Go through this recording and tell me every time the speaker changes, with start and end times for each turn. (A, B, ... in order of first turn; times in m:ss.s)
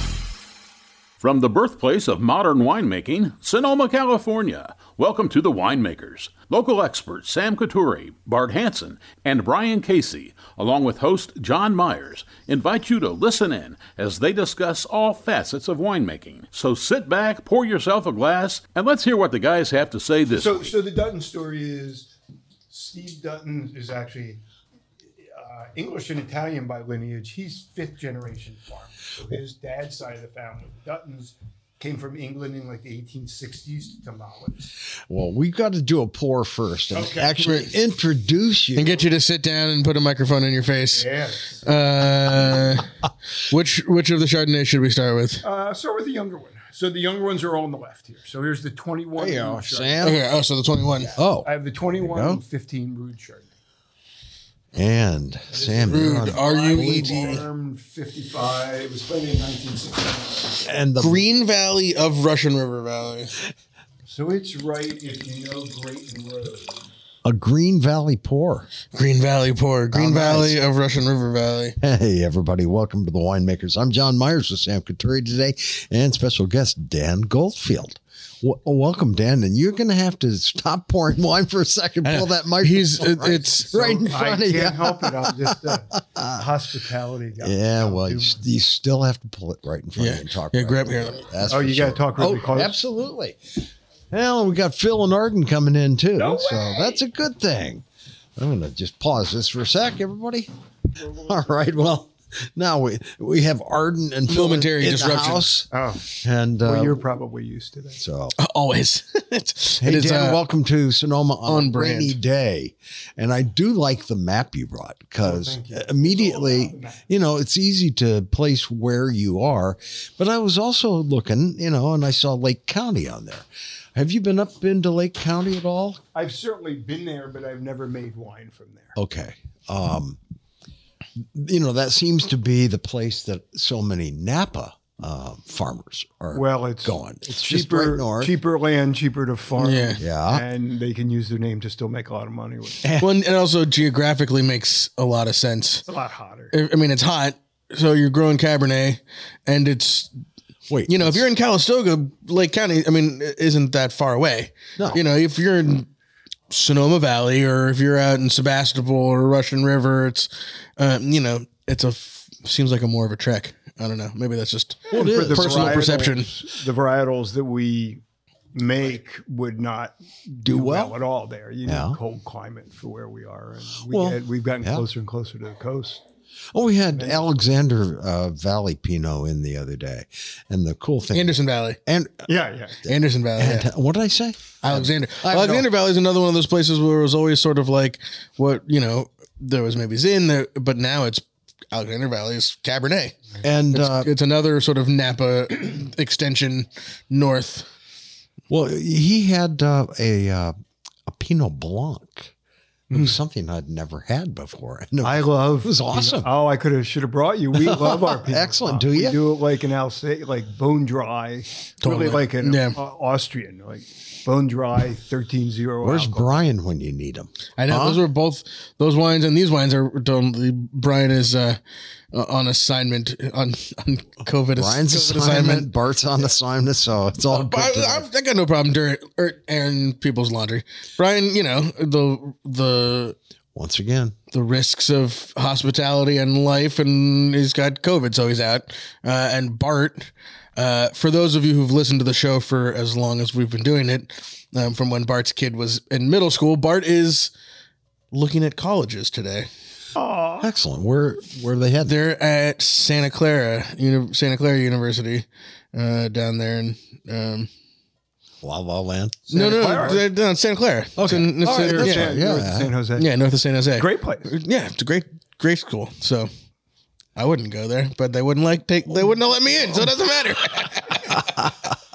0:01.2-0:20.7 A
0:20.3-0:22.1 B
0:22.7-0:24.4 B
0:25.3-0:34.7 B
0:35.1-0:39.1 C
0:36.9-0:37.6 B
0:37.4-0:37.7 D
0:38.8-0:42.9 D
0:41.0-0:41.6 B
0:43.5-0:45.4 D
0:45.4-0:50.1 B
0:49.2-0:50.2 C
0:50.0-0:51.2 D
0:51.0-0:53.5 B
0:51.2-0:52.4 C
0:54.7-0:57.4 C
0:55.5-1:00.6 B
0:55.9-0:57.4 D
1:00.6-1:01.2 C
1:01.0-1:03.4 D
1:04.1-1:06.8 B
1:07.2-1:08.7 C
1:08.9-1:11.8 D
1:09.9-1:10.6 C
1:11.8-1:26.5 C
1:22.0-1:23.7 D
1:23.7-1:28.4 B
1:27.4-1:33.6 C
1:30.0-1:31.3 D
1:31.4-1:32.8 B
1:34.1-1:37.8 C
1:36.2-1:37.0 B
1:38.4-1:40.5 C
1:41.2-1:47.1 C
1:44.3-1:45.5 D
1:45.7-1:48.0 B
1:48.0-1:48.4 C
1:48.4-1:50.4 D
1:49.8-2:06.0 C
1:51.5-1:52.2 D
1:55.2-1:57.0 B
2:06.1-2:08.9 B
2:09.0-2:10.2 C
2:11.2-2:18.4 C
2:16.3-2:22.8 B
2:19.6-2:20.0 D
2:20.0-2:20.4 C
2:22.8-2:23.1 C
2:23.0-2:25.8 D
2:25.9-2:26.5 B
2:26.5-2:30.1 D
2:30.7-2:31.2 C
2:30.9-2:35.9 D
2:36.5-2:46.3 D
2:44.9-2:48.0 B
2:44.9-2:45.9 C
2:48.5-2:56.0 B
2:50.4-2:51.0 C
2:51.7-2:52.0 C
2:53.9-2:54.9 C
2:56.5-3:01.3 C
2:57.0-2:57.3 B
3:01.1-3:01.8 D
3:01.8-3:02.3 C
3:02.3-3:02.8 B
3:02.8-3:05.7 C
3:02.9-3:03.7 D
3:04.6-3:13.2 D
3:13.4-3:14.1 C
3:13.7-3:17.7 D
3:18.5-3:20.5 C
3:21.1-3:22.3 C
3:22.9-3:23.2 B
3:22.9-3:26.3 C
3:25.0-3:36.4 B
3:27.6-3:29.2 C
3:31.8-3:32.8 D
3:35.8-3:38.0 C
3:37.6-3:41.6 D
3:42.1-3:45.7 D
3:44.5-3:48.1 C
3:47.3-3:53.2 D
3:53.5-3:54.2 C
3:54.3-4:07.3 D
4:08.1-4:09.5 D
4:10.0-4:10.5 B
4:10.4-4:12.0 C
4:11.9-4:17.5 D
4:18.4-4:19.7 C
4:19.3-4:20.1 B
4:19.3-4:22.2 D
4:21.0-4:22.7 C
4:21.4-4:23.1 B
4:23.0-4:26.3 D
4:23.8-4:24.3 B
4:27.2-4:31.3 D
4:31.3-4:31.7 C